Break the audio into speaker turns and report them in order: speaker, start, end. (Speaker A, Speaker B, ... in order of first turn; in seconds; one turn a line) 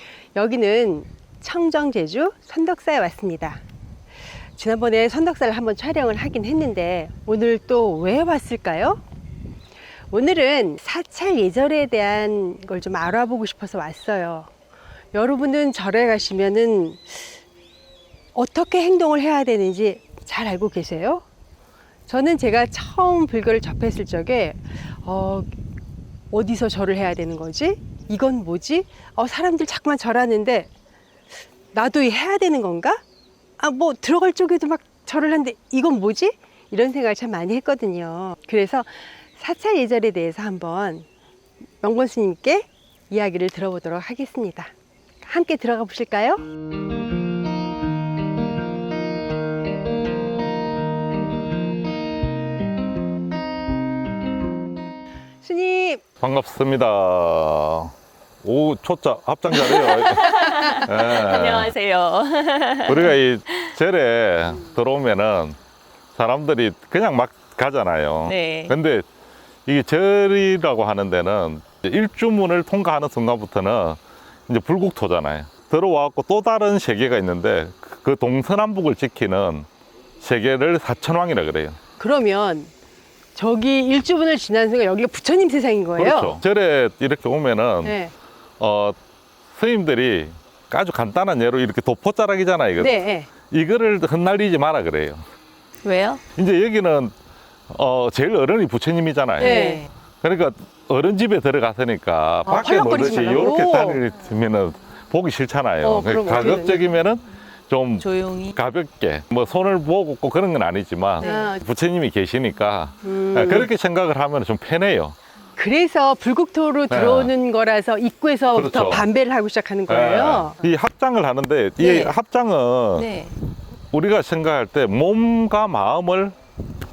Speaker A: 0.3-3.6
Speaker A: 4.6-9.0
Speaker A: 10.1-14.5
Speaker A: 15.1-17.4
Speaker A: 18.3-21.2
Speaker A: 22.1-25.5
Speaker A: 26.3-30.7
Speaker A: 31.7-33.0
Speaker A: 33.6-41.1
Speaker A: 41.8-44.7
Speaker A: 45.2-46.4
Speaker A: 55.4-56.0
Speaker B: 56.2-61.7
Speaker C: 59.5-63.7
Speaker B: 62.9-65.6
Speaker B: 66.2-69.0
Speaker C: 68.2-68.7
Speaker B: 69.7-79.7
Speaker B: 80.2-81.8
Speaker A: 82.0-82.7
Speaker A: 83.3-86.4
Speaker B: 86.0-88.0
Speaker A: 87.8-88.1
Speaker B: 88.6-89.0
Speaker B: 89.5-95.2
Speaker A: 92.8-93.3
Speaker C: 95.8-96.2
Speaker B: 96.3-97.1
Speaker B: 97.7-99.6
Speaker C: 99.4-99.9
Speaker A: 99.4-99.8
Speaker B: 100.2-115.2
Speaker A: 102.5-104.0
Speaker A: 105.8-106.8
Speaker C: 108.0-108.6
Speaker C: 111.2-111.5
Speaker A: 111.2-111.6
Speaker A: 113.0-113.7
Speaker A: 115.6-120.6
Speaker B: 116.9-117.3
Speaker B: 118.5-119.0
Speaker B: 119.9-123.1
Speaker C: 121.8-122.1
Speaker C: 123.0-123.3
Speaker B: 123.9-126.3